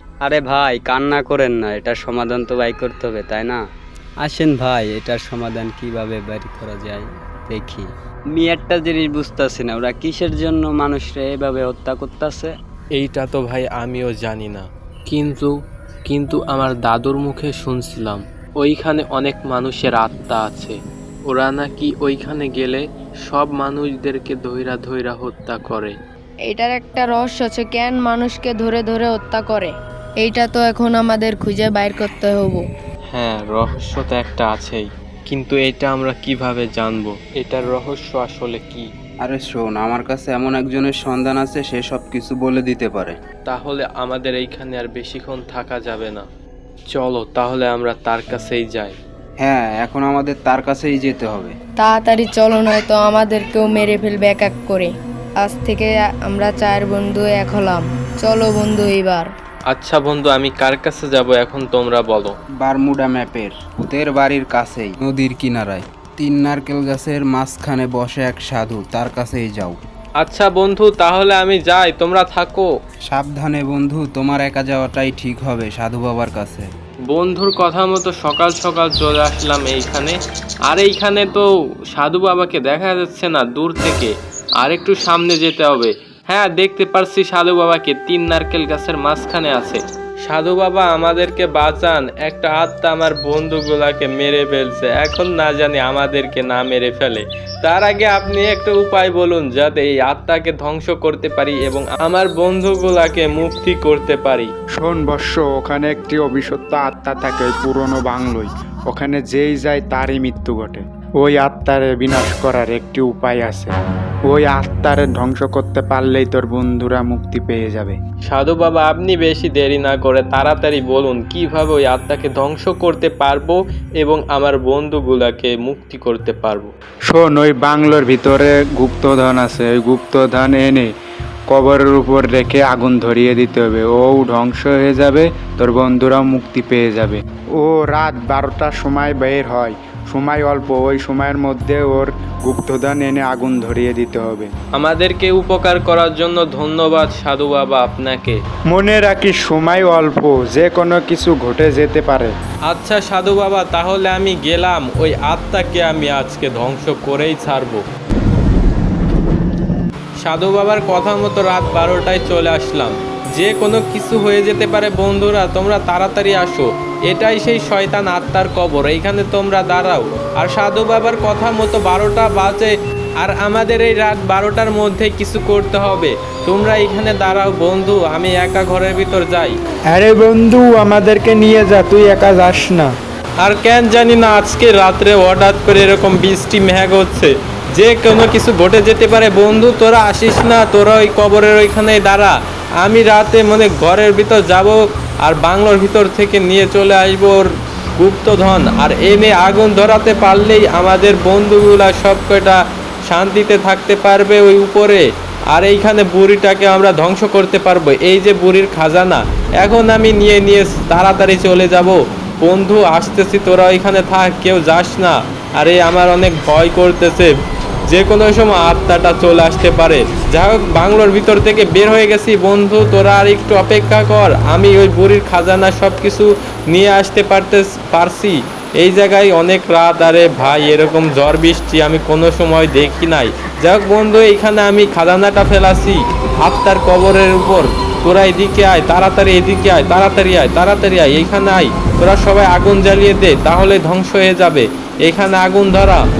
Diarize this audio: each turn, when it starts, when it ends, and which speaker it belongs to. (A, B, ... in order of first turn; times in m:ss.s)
0:00.2-0:03.6 A
0:04.2-0:12.5 A
0:12.9-0:15.5 B
0:16.0-0:26.0 B
0:26.5-0:29.7 C
0:30.2-0:32.6 C
0:33.1-0:38.9 B
0:39.2-0:43.2 D
0:43.5-0:46.3 B
0:46.9-0:48.9 B
0:49.4-0:51.6 D
0:51.8-0:59.3 C
0:59.7-1:02.3 B
1:02.6-1:09.8 D
1:10.2-1:12.7 B
1:13.1-1:16.7 D
1:17.1-1:44.5 B
1:44.8-1:53.8 E
1:54.3-1:58.0 E
1:58.2-2:06.7 B
2:07.1-2:10.9 E
2:11.5-2:24.5 E
2:24.8-2:28.4 B
2:28.7-2:32.3 E
2:32.7-2:37.8 B
2:40.2-2:59.6 B
2:59.9-3:02.9 E
3:03.4-3:37.3 B
3:37.9-4:06.0 B